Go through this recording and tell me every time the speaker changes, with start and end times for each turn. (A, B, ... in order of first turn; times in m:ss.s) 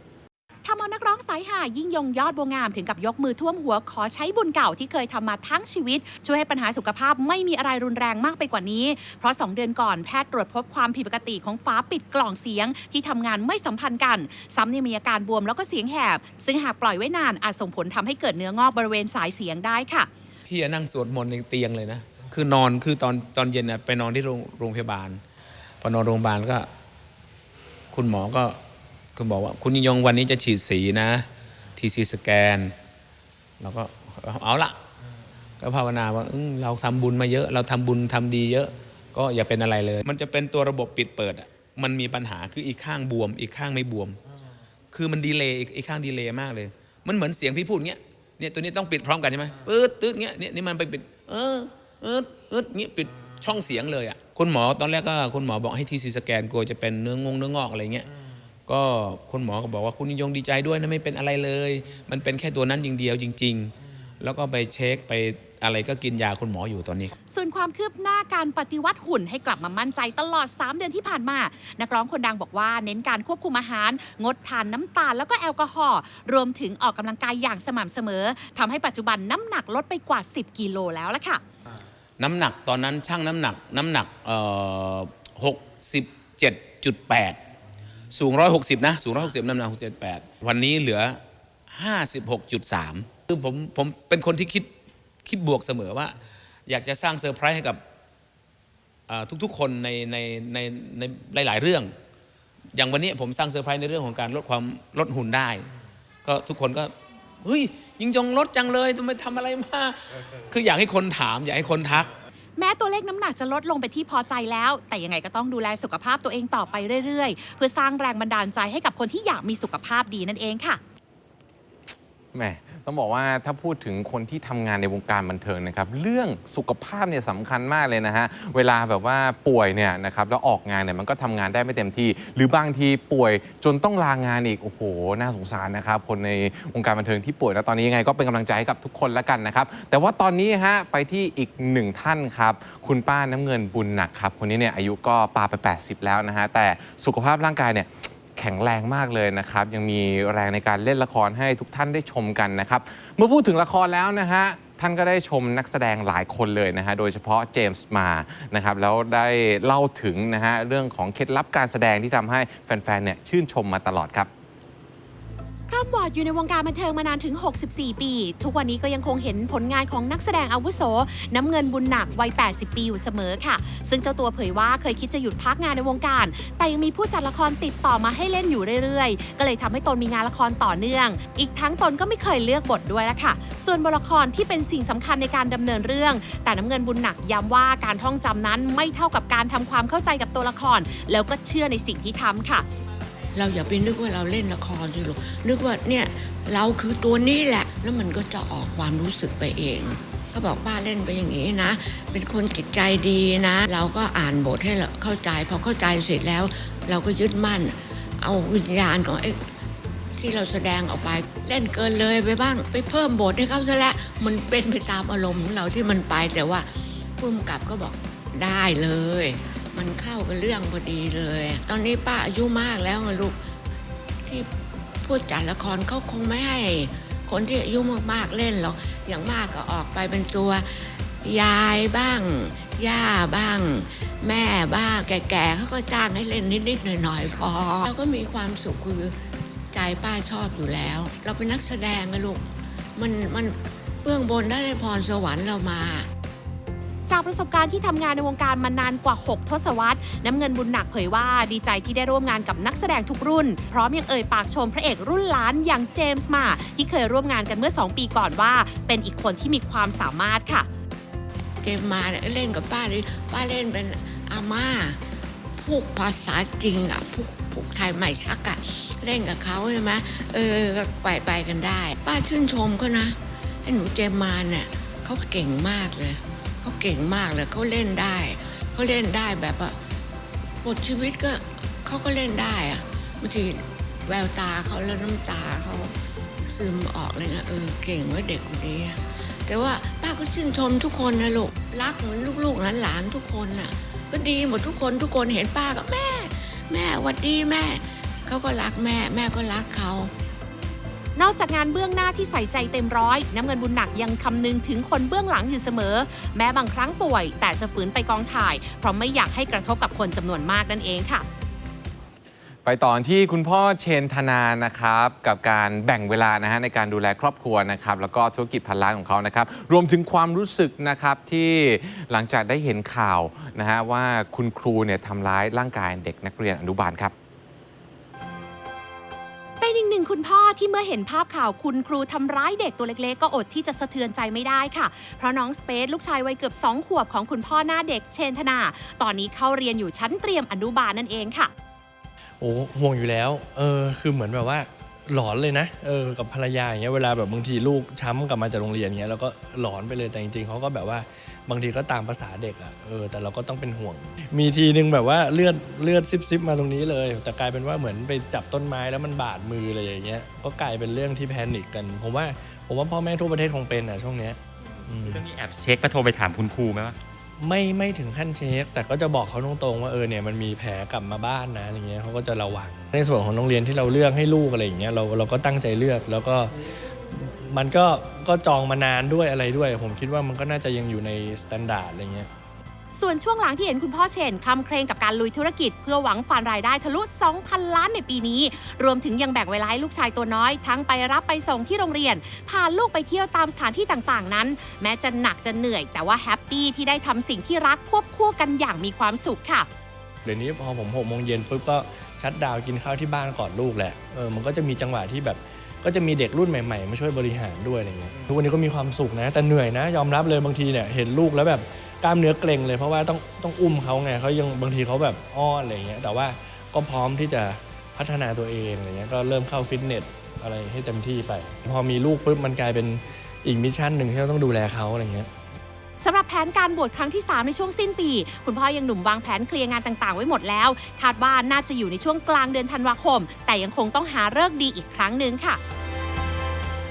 0:00.6-0:20.1 A
0:20.5-0:25.2 B
0:25.8-0:26.7 B
0:27.9-0:28.6 B
0:29.2-0:32.7 B
0:33.6-0:34.8 B
0:35.6-0:44.2 B
0:44.9-0:58.1 B
0:58.7-1:07.1 B
1:07.3-1:21.4 A
1:22.2-1:27.4 B
1:28.1-1:34.7 B
1:35.2-1:37.8 B
1:39.1-1:41.9 B
1:42.7-1:45.7 B
1:46.2-1:52.1 B
1:52.6-2:00.8 A
2:02.3-2:44.3 C
2:45.7-3:12.6 A
3:13.3-3:29.5 D
3:30.2-3:43.5 D
3:44.2-4:06.1 D
4:07.1-4:20.7 A
4:21.6-4:25.0 D
4:25.6-4:40.0 D
4:40.6-5:00.1 D
5:01.2-5:11.2 A
5:12.6-5:27.1 C
5:29.6-5:41.5 A
5:42.4-6:05.2 E
6:04.6-6:07.0 F
6:07.4-6:16.5 E
6:17.1-6:22.3 E
6:22.9-6:39.7 A
6:40.2-7:05.3 E
7:06.0-7:15.6 A